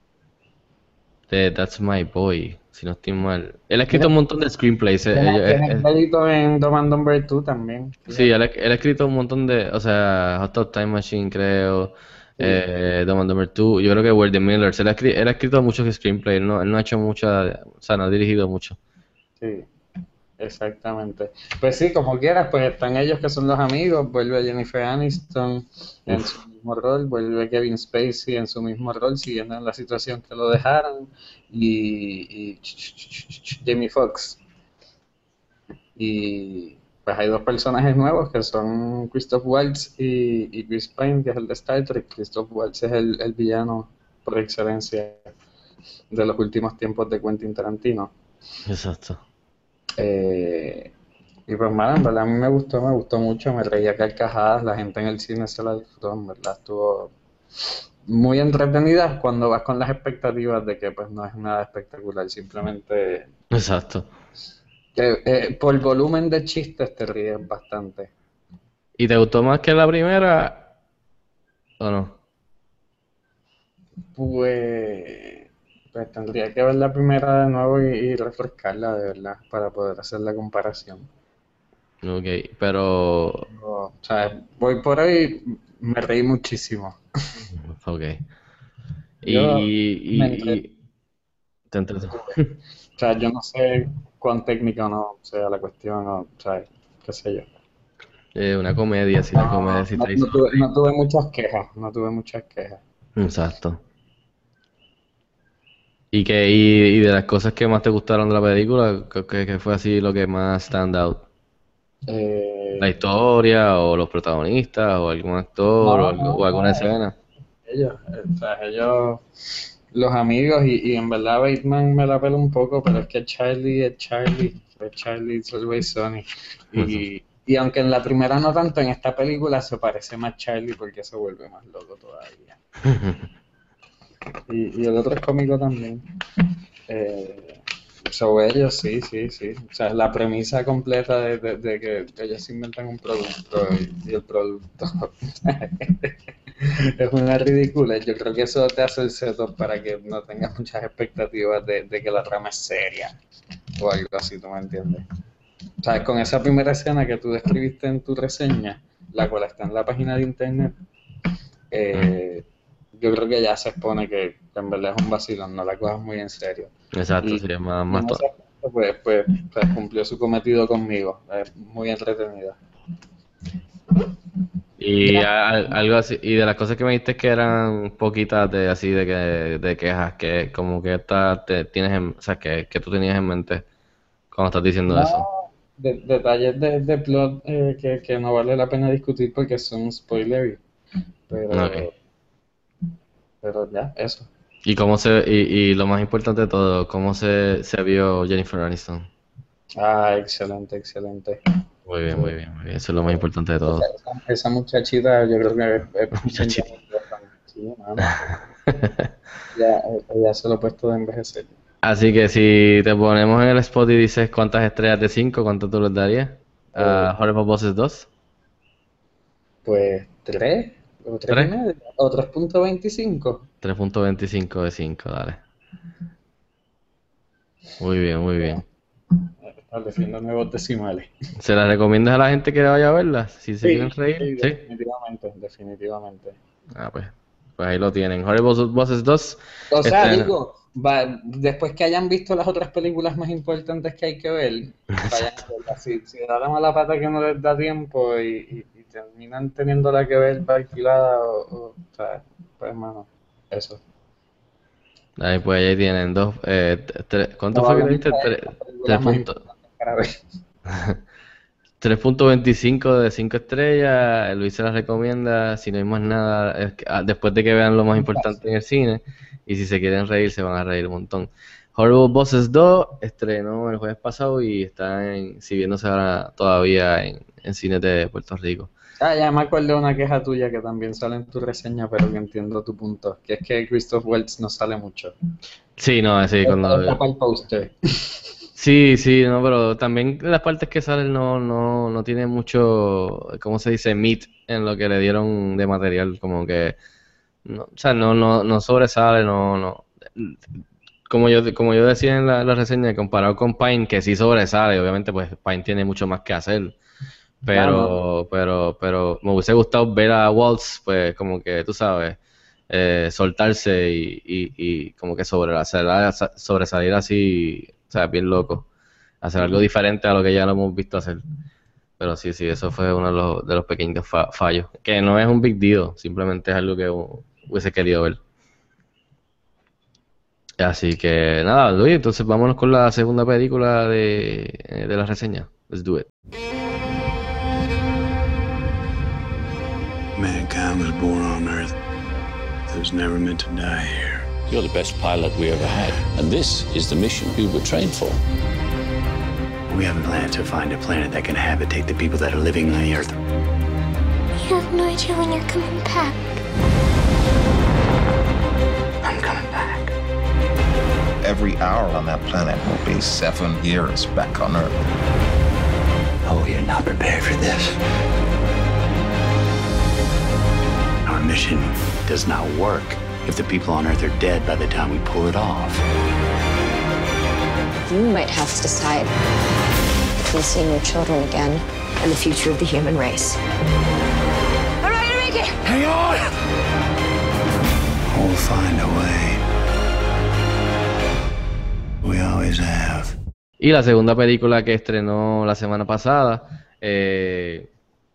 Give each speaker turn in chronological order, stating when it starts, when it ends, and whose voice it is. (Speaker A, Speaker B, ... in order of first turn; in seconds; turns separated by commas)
Speaker A: 1.3-5.8, Speaker B: 5.1-8.3, Speaker A: 8.1-18.8, Speaker B: 19.4-19.7, Speaker B: 20.4-34.4, Speaker A: 26.1-26.3, Speaker B: 36.0-45.2, Speaker B: 46.1-48.1, Speaker A: 48.6-49.2, Speaker B: 50.0-50.9, Speaker B: 51.5-57.1, Speaker B: 58.1-63.3, Speaker A: 63.5-64.1, Speaker B: 65.0-68.1, Speaker A: 69.0-70.7, Speaker A: 71.8-72.2, Speaker B: 74.1-81.1, Speaker A: 82.0-83.5, Speaker B: 83.5-87.0, Speaker A: 87.7-88.2, Speaker A: 89.2-90.7, Speaker B: 89.2-90.6, Speaker A: 91.7-92.5, Speaker B: 92.1-92.3, Speaker B: 93.0-97.5, Speaker A: 98.3-100.6, Speaker B: 99.3-102.8, Speaker A: 103.2-103.8, Speaker A: 106.1-111.2, Speaker B: 112.1-112.9, Speaker A: 112.8-117.1, Speaker B: 115.8-116.9, Speaker B: 117.7-119.2, Speaker B: 119.9-132.6, Speaker A: 126.7-127.0, Speaker A: 132.8-133.2, Speaker B: 134.5-136.0, Speaker B: 136.9-153.1, Speaker B: 153.8-155.0, Speaker B: 155.8-160.8, Speaker B: 161.7-166.7, Speaker A: 166.9-168.2, Speaker B: 167.2-172.6, Speaker A: 174.8-183.6, Speaker A: 184.3-185.2, Speaker B: 184.9-190.6, Speaker B: 191.3-191.9, Speaker A: 191.5-191.9, Speaker B: 193.4-194.3, Speaker A: 194.7-199.1, Speaker B: 199.8-201.4, Speaker A: 201.9-203.9, Speaker B: 203.1-208.1, Speaker A: 206.2-206.6, Speaker A: 208.0-209.1, Speaker B: 209.5-211.5, Speaker A: 211.8-218.1, Speaker B: 216.8-217.1, Speaker B: 219.6-223.4, Speaker A: 223.6-225.4, Speaker A: 227.8-228.6, Speaker B: 229.5-231.1, Speaker A: 231.4-234.6, Speaker B: 233.6-236.4, Speaker A: 236.7-240.3, Speaker B: 239.7-253.8, Speaker A: 244.9-245.3, Speaker A: 255.2-259.4, Speaker B: 257.5-260.1, Speaker A: 260.7-261.0, Speaker A: 261.8-278.7, Speaker B: 268.1-268.4, Speaker B: 279.0-285.1, Speaker A: 285.8-287.0, Speaker B: 286.4-288.2, Speaker A: 288.6-296.8, Speaker A: 297.4-300.4, Speaker A: 301.1-306.8, Speaker A: 307.4-312.2, Speaker B: 307.5-307.9, Speaker A: 312.7-318.6, Speaker A: 319.2-321.2, Speaker A: 322.0-328.2, Speaker A: 330.6-336.1, Speaker C: 340.1-341.7, Speaker C: 342.7-344.3, Speaker D: 344.5-348.2, Speaker C: 349.7-353.2, Speaker E: 354.3-356.4, Speaker C: 359.0-359.9, Speaker F: 361.2-364.7, Speaker C: 366.2-367.8, Speaker C: 371.1-375.8, Speaker G: 377.9-379.1, Speaker G: 380.2-383.4, Speaker G: 384.8-385.6, Speaker C: 385.6-386.2, Speaker C: 388.1-389.4, Speaker C: 392.0-393.1, Speaker A: 393.6-397.7